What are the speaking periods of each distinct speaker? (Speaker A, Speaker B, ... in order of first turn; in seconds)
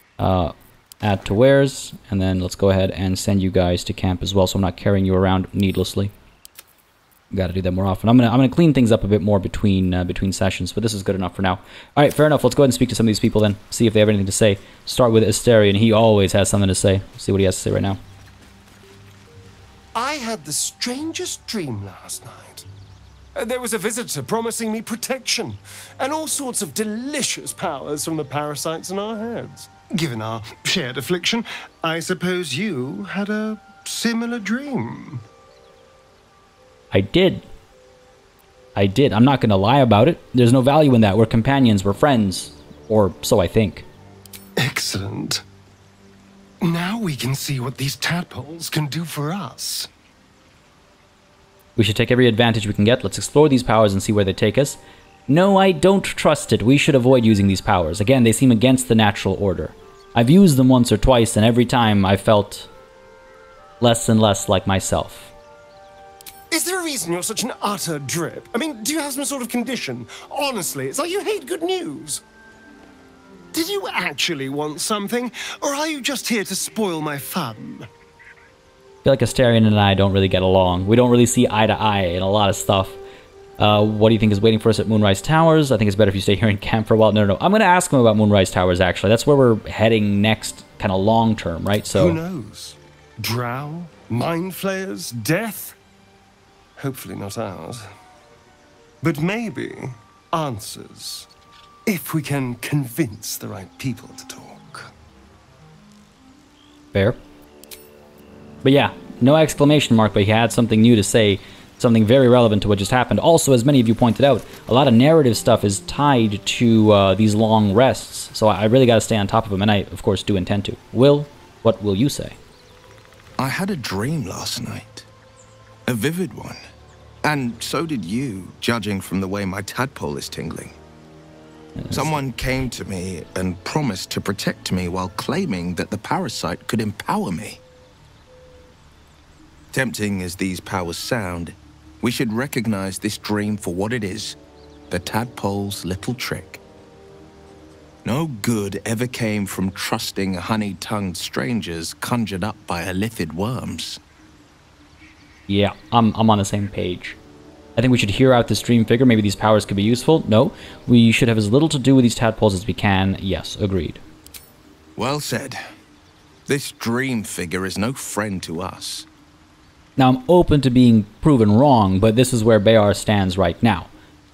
Speaker A: 0.2-6.1, 7.3-18.0, 36.9-37.5, 38.8-43.9, 51.8-62.7, 63.8-65.3, 79.0-83.0, 83.6-92.2, 108.6-122.4, 131.8-132.2, 155.5-157.2, 157.8-164.0, 170.0-173.9
Speaker B: 19.9-22.7, 23.4-35.2, 44.6-45.4, 46.6-49.9, 66.5-72.2, 73.5-77.9, 92.0-95.8, 96.8-97.8, 99.0-101.3, 101.9-104.9
Speaker C: 123.4-125.1, 125.9-126.6, 127.2-130.8, 131.9-137.6, 139.7-144.4, 144.9-146.6, 148.0-154.0, 165.0-165.6, 166.5-169.1